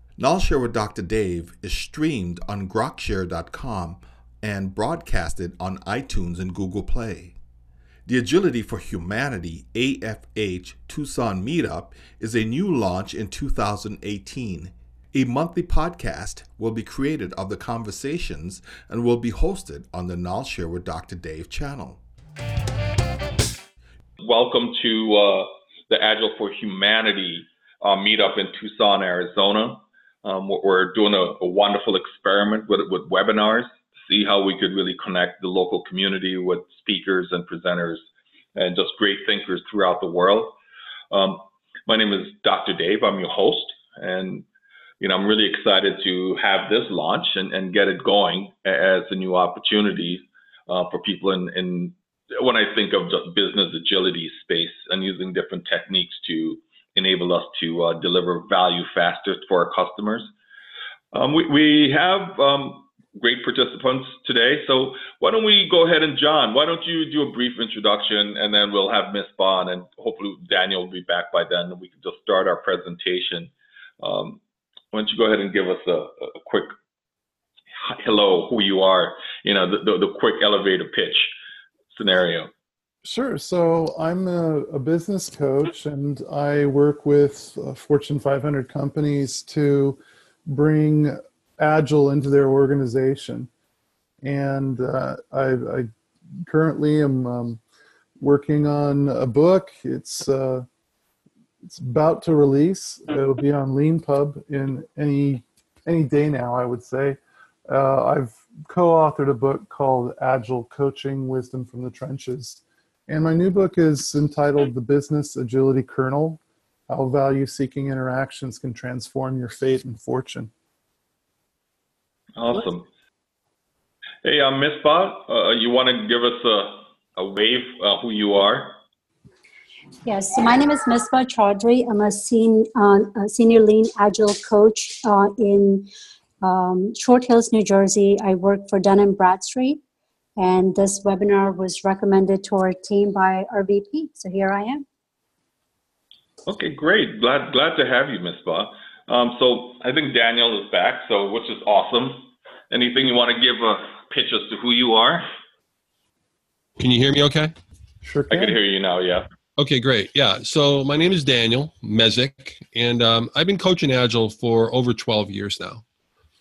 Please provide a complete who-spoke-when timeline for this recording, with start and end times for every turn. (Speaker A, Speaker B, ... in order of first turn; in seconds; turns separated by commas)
Speaker A: 0.2-7.3, Speaker A: 8.1-22.0, Speaker B: 24.2-40.6, Speaker B: 41.1-44.4, Speaker B: 45.0-60.3, Speaker B: 61.1-74.4, Speaker B: 74.9-76.7, Speaker B: 77.8-81.3, Speaker B: 81.9-82.5, Speaker C: 83.0-93.5, Speaker C: 94.2-97.6, Speaker C: 98.2-100.7, Speaker C: 101.6-120.5, Speaker B: 122.3-122.9, Speaker B: 124.2-128.7, Speaker D: 130.0-135.9, Speaker D: 136.4-139.8, Speaker D: 140.4-144.8, Speaker B: 146.4-155.2, Speaker E: 156.8-157.5, Speaker C: 158.0-158.6, Speaker B: 158.3-159.3, Speaker E: 159.6-165.8